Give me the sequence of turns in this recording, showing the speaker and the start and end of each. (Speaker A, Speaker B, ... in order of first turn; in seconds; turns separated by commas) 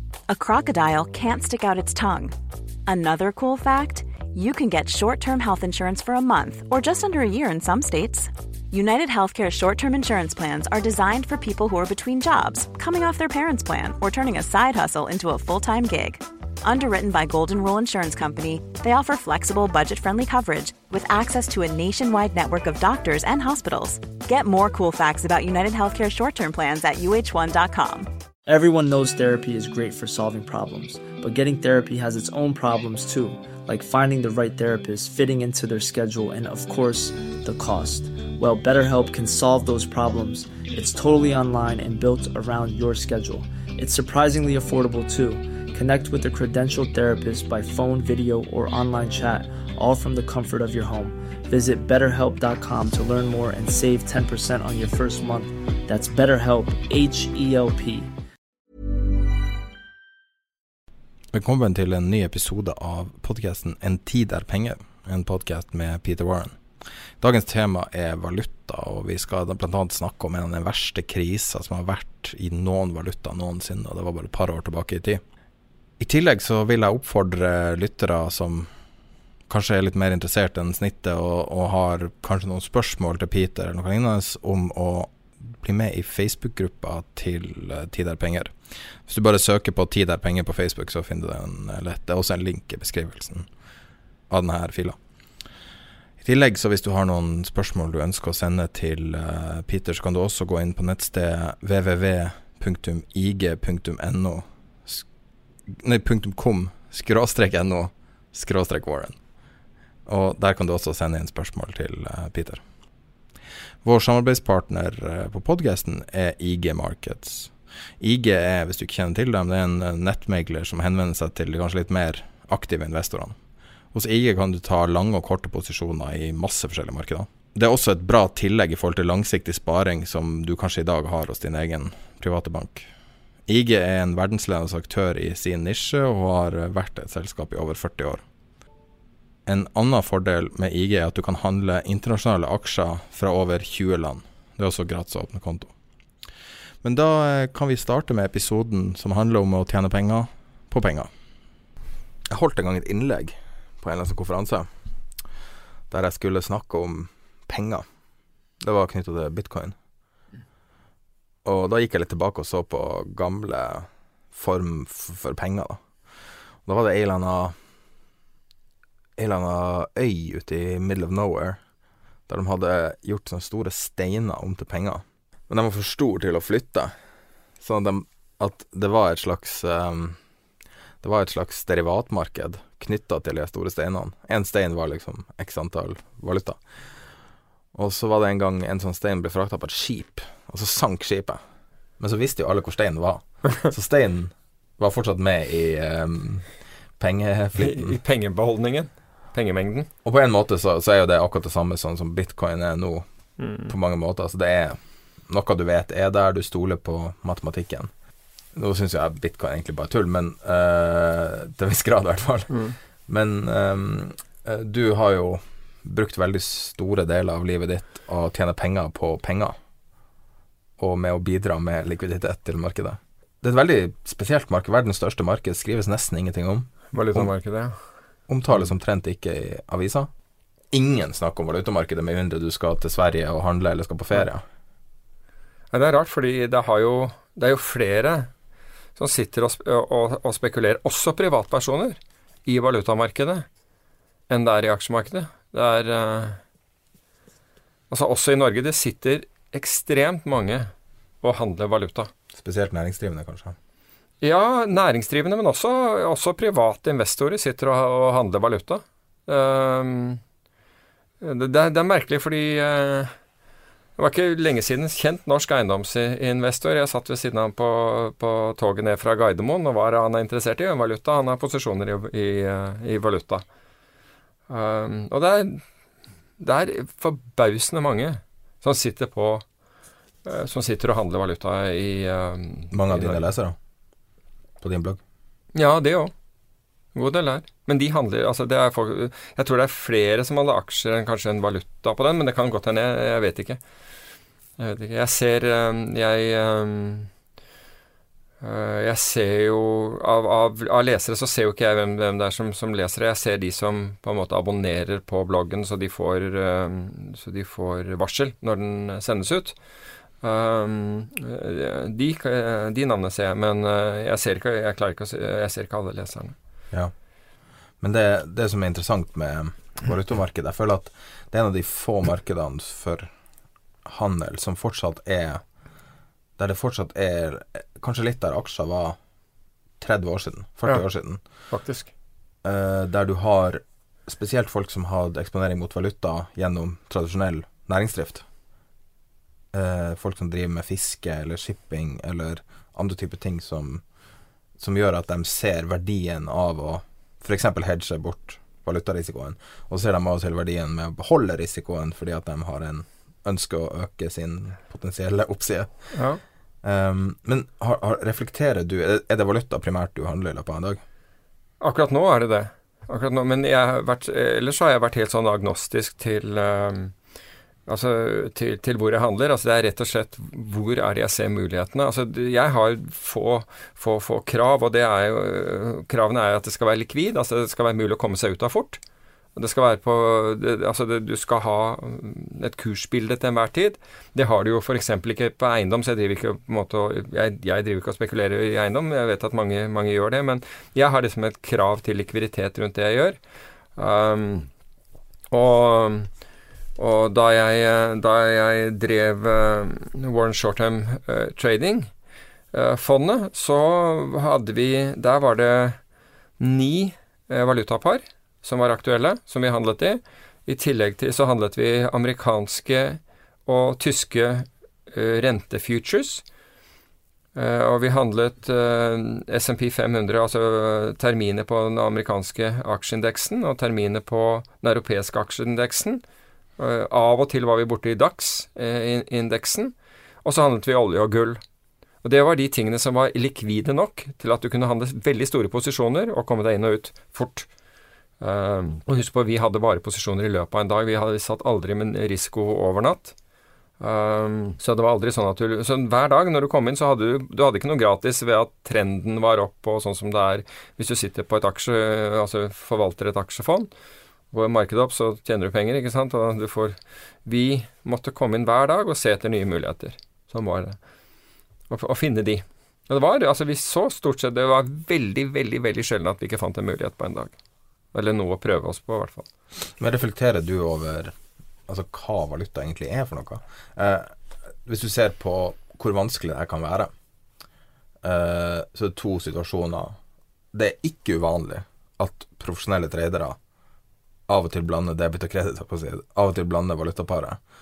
Speaker A: 0.3-2.3, Speaker A: 2.9-28.1, Speaker B: 28.4-58.1, Speaker C: 61.3-66.6, Speaker C: 67.2-75.2, Speaker C: 76.0-78.7, Speaker C: 79.5-93.5, Speaker C: 94.3-95.0, Speaker C: 96.2-105.1, Speaker C: 105.7-109.2, Speaker C: 110.1-112.6, Speaker C: 113.8-123.4, Speaker C: 123.9-132.9, Speaker C: 133.5-138.2, Speaker C: 139.4-145.7, Speaker C: 146.8-151.1, Speaker C: 152.3-154.7, Speaker C: 155.9-157.8, Speaker C: 158.6-159.8, Speaker C: 161.4-165.8, Speaker C: 166.6-167.5, Speaker C: 169.2-171.6, Speaker C: 172.3-176.9, Speaker C: 177.6-180.2, Speaker C: 181.0-186.6, Speaker C: 187.7-191.4, Speaker C: 192.0-196.5, Speaker C: 197.0-198.0, Speaker D: 197.6-199.9, Speaker C: 200.0-203.1, Speaker D: 203.4-203.7, Speaker C: 203.7-204.8, Speaker C: 205.3-207.9, Speaker C: 208.5-219.6, Speaker D: 212.5-212.8, Speaker C: 220.8-227.3, Speaker D: 226.9-227.8, Speaker C: 228.3-230.1, Speaker C: 230.7-234.4, Speaker D: 235.7-238.3, Speaker D: 238.9-243.5, Speaker D: 244.3-246.4, Speaker D: 247.9-250.7, Speaker D: 251.2-252.1, Speaker C: 252.3-253.6, Speaker D: 254.2-260.2, Speaker D: 261.2-263.1, Speaker D: 264.0-273.4, Speaker D: 274.5-275.6, Speaker D: 276.4-279.4, Speaker D: 280.2-283.2, Speaker C: 282.7-283.6, Speaker C: 284.6-285.0, Speaker D: 285.6-286.1, Speaker D: 286.9-293.6, Speaker D: 294.6-297.1, Speaker D: 298.4-309.6, Speaker D: 310.2-316.4, Speaker C: 317.8-323.1, Speaker C: 323.9-325.4, Speaker C: 326.4-329.0, Speaker C: 329.8-331.2, Speaker D: 331.5-331.9, Speaker C: 332.4-338.2, Speaker C: 339.5-343.8, Speaker C: 344.6-355.7, Speaker D: 355.9-356.2, Speaker C: 356.6-360.8, Speaker D: 361.6-366.9, Speaker D: 367.7-378.8, Speaker D: 379.4-393.2, Speaker D: 393.8-394.5, Speaker D: 395.3-396.1, Speaker D: 396.8-401.9, Speaker D: 402.5-405.8, Speaker D: 406.4-416.2, Speaker D: 417.4-426.0, Speaker D: 426.6-431.4, Speaker D: 432.0-437.5, Speaker D: 438.2-443.1, Speaker D: 443.8-453.7, Speaker D: 454.3-460.8, Speaker D: 461.7-467.3, Speaker D: 467.9-469.3, Speaker C: 469.8-471.2, Speaker C: 471.7-474.1, Speaker C: 474.6-476.9, Speaker C: 478.0-480.0, Speaker C: 480.5-483.4, Speaker C: 484.3-487.4